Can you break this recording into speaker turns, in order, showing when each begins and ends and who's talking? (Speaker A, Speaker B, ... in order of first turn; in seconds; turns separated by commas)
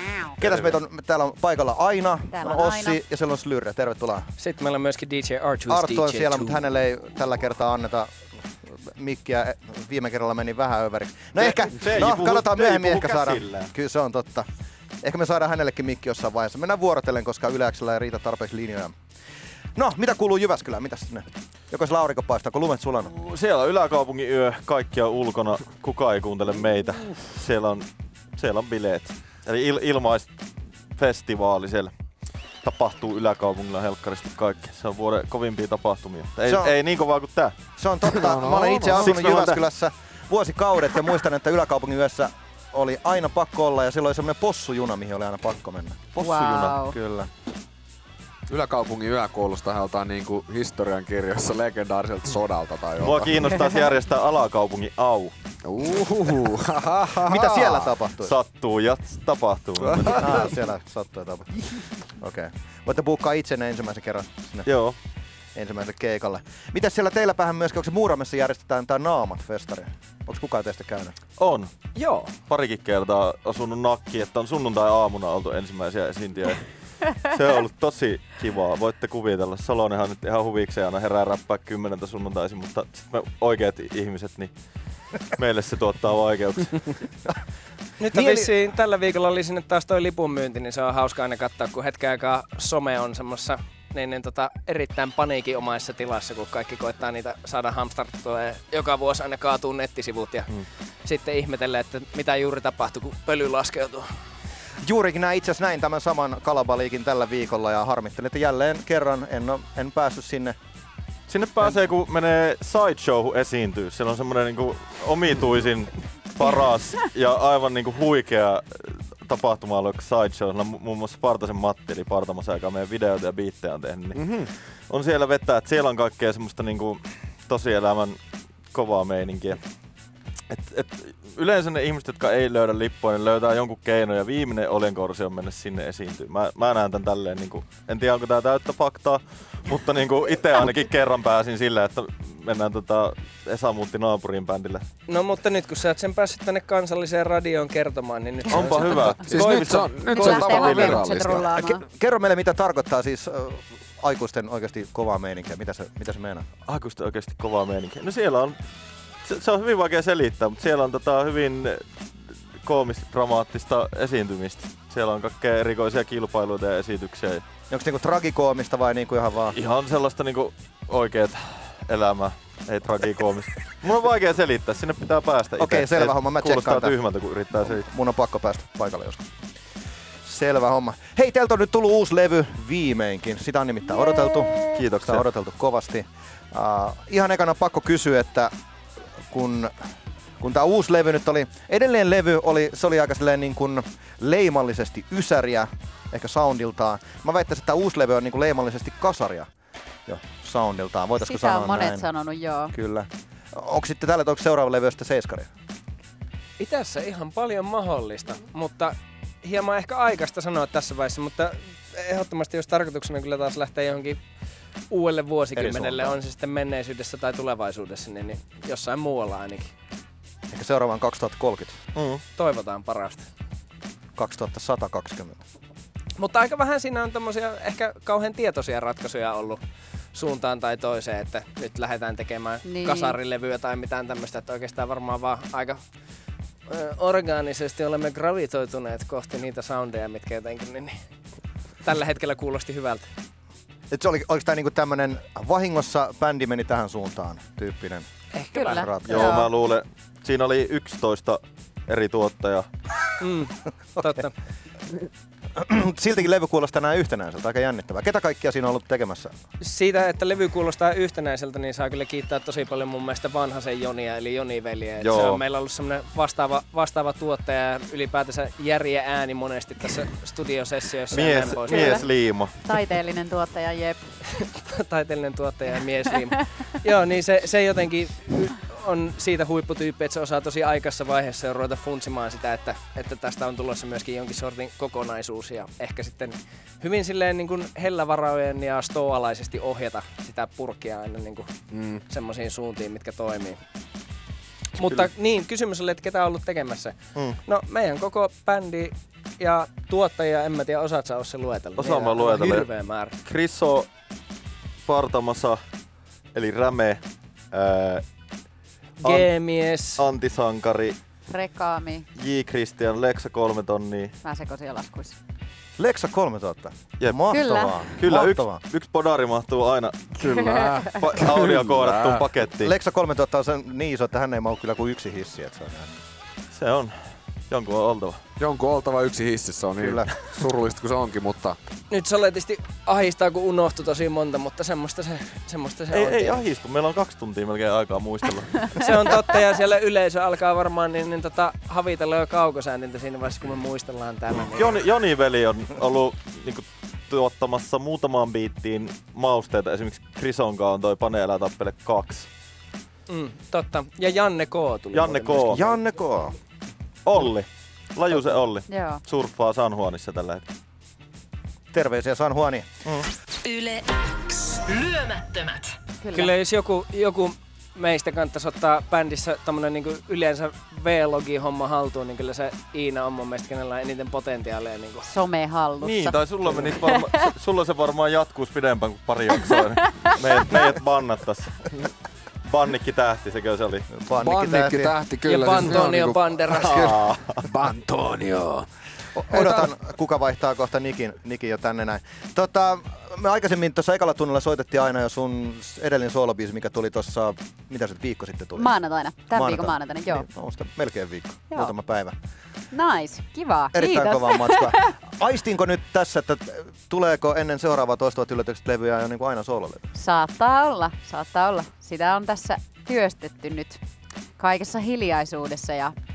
Speaker A: 0.4-4.3, Speaker B: 0.4-0.7, Speaker C: 2.3-3.0, Speaker D: 4.4-6.6, Speaker A: 5.7-14.5, Speaker B: 11.4-13.7, Speaker A: 15.0-18.9, Speaker A: 19.8-23.1, Speaker B: 23.1-30.3, Speaker B: 30.9-31.9, Speaker B: 32.6-37.5, Speaker A: 36.5-36.7, Speaker A: 37.8-47.3, Speaker E: 38.1-39.1, Speaker B: 39.0-39.6, Speaker C: 46.2-47.0, Speaker E: 48.5-53.6, Speaker B: 53.0-55.3, Speaker E: 55.6-57.9, Speaker A: 57.1-58.4, Speaker B: 58.2-60.3, Speaker E: 59.8-60.4, Speaker A: 60.0-64.7, Speaker B: 64.7-65.0, Speaker A: 65.5-71.2, Speaker B: 71.4-71.7, Speaker D: 71.9-72.3, Speaker B: 72.5-84.5, Speaker B: 85.2-87.0, Speaker D: 88.0-104.1, Speaker A: 88.1-88.5, Speaker A: 104.8-110.5, Speaker B: 111.3-128.2, Speaker E: 124.1-124.5, Speaker B: 128.7-129.6, Speaker B: 130.5-144.8, Speaker D: 145.1-150.8, Speaker B: 148.5-149.7, Speaker E: 149.2-151.5, Speaker C: 150.1-151.8, Speaker A: 151.4-156.4, Speaker B: 156.7-158.6, Speaker B: 159.2-167.4, Speaker A: 167.7-169.6, Speaker B: 169.5-177.8, Speaker A: 175.6-177.0, Speaker A: 177.5-179.3, Speaker A: 180.2-188.5, Speaker B: 184.7-185.2, Speaker A: 189.3-189.7, Speaker A: 190.4-199.5, Speaker A: 200.1-202.1, Speaker C: 201.2-202.7, Speaker A: 202.7-205.5, Speaker D: 206.6-214.2, Speaker D: 214.9-219.7, Speaker A: 215.5-216.2, Speaker A: 220.5-221.8, Speaker B: 221.9-222.2, Speaker D: 222.3-223.2, Speaker A: 224.2-225.4, Speaker D: 226.2-229.6, Speaker D: 230.1-235.8, Speaker C: 232.6-233.2, Speaker D: 236.7-240.9, Speaker D: 241.8-243.1, Speaker A: 243.9-248.1, Speaker D: 248.3-248.8, Speaker C: 248.5-249.5, Speaker A: 248.7-249.4, Speaker B: 249.0-252.7, Speaker D: 253.2-254.3, Speaker A: 255.5-259.3, Speaker D: 259.6-272.0, Speaker B: 265.0-265.4, Speaker B: 271.1-272.5, Speaker C: 271.7-272.1, Speaker C: 272.6-274.0, Speaker D: 274.3-291.5, Speaker E: 291.7-292.0, Speaker D: 292.1-293.6, Speaker D: 294.8-303.1, Speaker B: 301.8-302.7, Speaker B: 303.2-303.9, Speaker B: 304.9-305.6, Speaker B: 306.3-308.0, Speaker B: 309.0-309.3, Speaker D: 309.0-310.0, Speaker B: 309.9-311.0, Speaker C: 311.3-312.1, Speaker B: 312.1-314.1, Speaker C: 314.2-315.1, Speaker A: 315.8-318.6, Speaker C: 317.3-317.8, Speaker B: 317.9-320.2, Speaker E: 320.2-322.3, Speaker C: 320.2-321.0, Speaker B: 320.9-322.7, Speaker A: 322.6-326.0, Speaker B: 326.5-326.9, Speaker B: 327.5-328.2, Speaker E: 328.4-331.6, Speaker A: 329.8-330.1, Speaker D: 331.9-336.4, Speaker B: 335.9-338.9, Speaker D: 338.7-344.8, Speaker B: 344.5-352.3, Speaker D: 353.1-355.8, Speaker B: 354.9-355.6, Speaker A: 355.5-356.4, Speaker B: 357.1-360.5, Speaker C: 358.7-359.0, Speaker A: 361.7-363.0, Speaker F: 363.4-365.8, Speaker C: 366.0-366.3, Speaker D: 366.1-375.1, Speaker C: 375.0-377.2, Speaker B: 375.8-381.8, Speaker C: 379.5-380.2, Speaker B: 382.4-383.9, Speaker A: 383.9-384.9, Speaker E: 384.2-388.7, Speaker D: 385.2-387.0, Speaker B: 386.5-387.4, Speaker A: 389.1-398.7, Speaker E: 389.3-389.6, Speaker C: 398.6-400.2, Speaker A: 399.3-402.1, Speaker C: 402.7-404.9, Speaker A: 403.7-409.8, Speaker C: 409.9-413.8, Speaker C: 414.4-415.9